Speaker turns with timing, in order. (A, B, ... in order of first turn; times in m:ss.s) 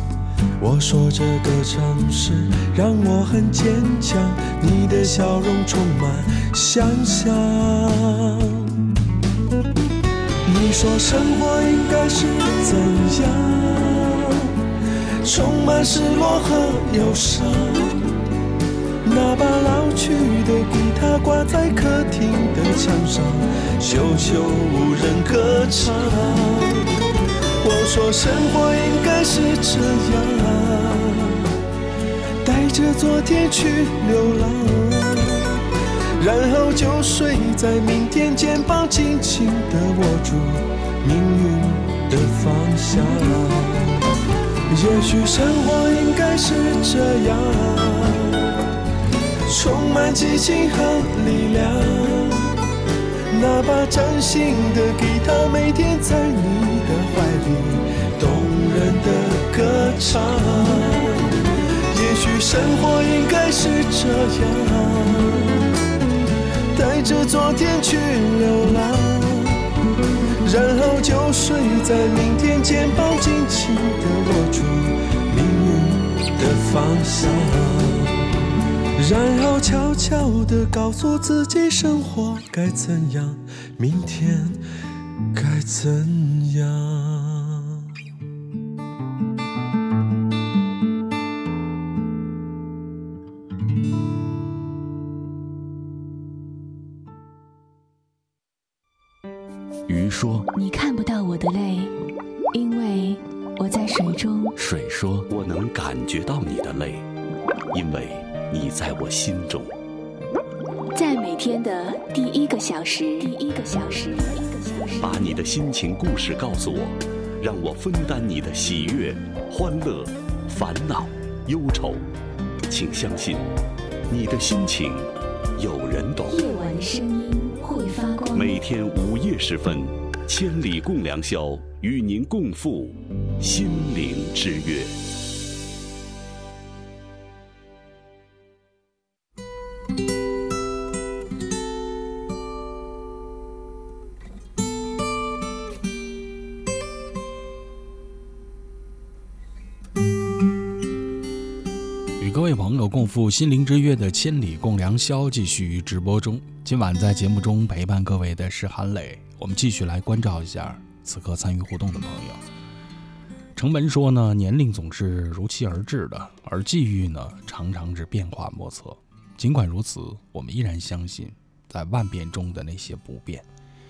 0:00.6-0:08.7 A
0:10.4-0:14.5 A
0:15.2-0:18.2 A
0:19.0-0:26.9 A
0:27.6-0:31.4 A
0:32.4-0:35.6 A
0:36.2-0:44.0 A
0:44.7-0:48.5 A
0:49.5-0:52.6 A
0:53.3-1:01.3 A
1:01.9-1:05.6 A
1:06.7-1:09.6 A
1:10.4-1:18.2 A
1:19.0-1:24.6 A
1:25.3-1:27.8 A
1:39.9-1:40.5 B
1:40.5-1:41.9 C
1:42.5-1:44.5 C
1:44.6-1:47.1 B
1:47.7-1:49.7 B
1:50.9-1:55.3 C
1:55.0-2:02.1 B
2:02.7-2:03.5 B
2:04.1-2:06.4 B
2:06.3-2:08.6 C
2:08.3-2:15.0 B
2:32.2-2:42.4 D
2:43.6-2:53.5 D